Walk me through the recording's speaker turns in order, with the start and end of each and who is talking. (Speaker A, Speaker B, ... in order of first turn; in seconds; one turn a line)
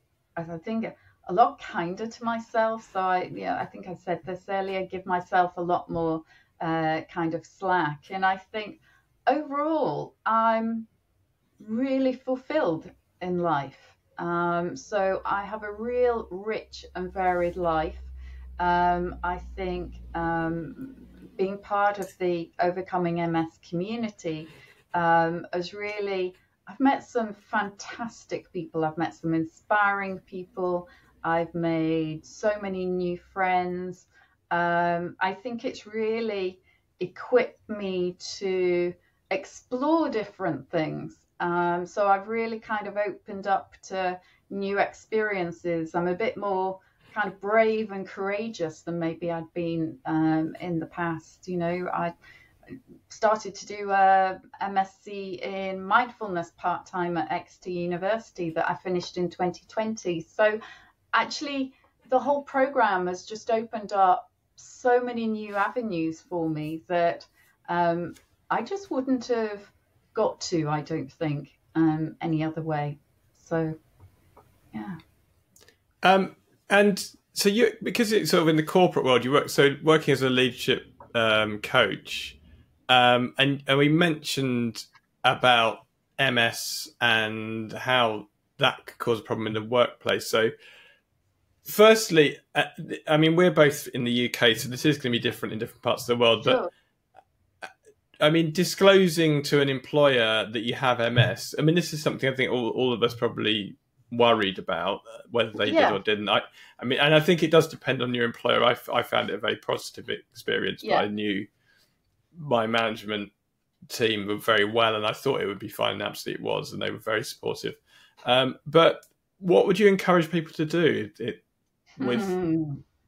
Speaker A: 0.4-10.9
Speaker A: 11.6-52.1
Speaker A: 52.7-60.6
Speaker A: 61.1-73.8
Speaker A: 74.7-75.0
Speaker B: 76.0-82.3
Speaker B: 82.9-90.5
Speaker B: 91.6-96.6
Speaker A: 96.4-96.7
Speaker B: 98.2-111.5
Speaker A: 105.7-106.0
Speaker B: 112.3-113.3
Speaker B: 113.9-121.4
Speaker B: 122.0-122.3
Speaker A: 122.0-122.8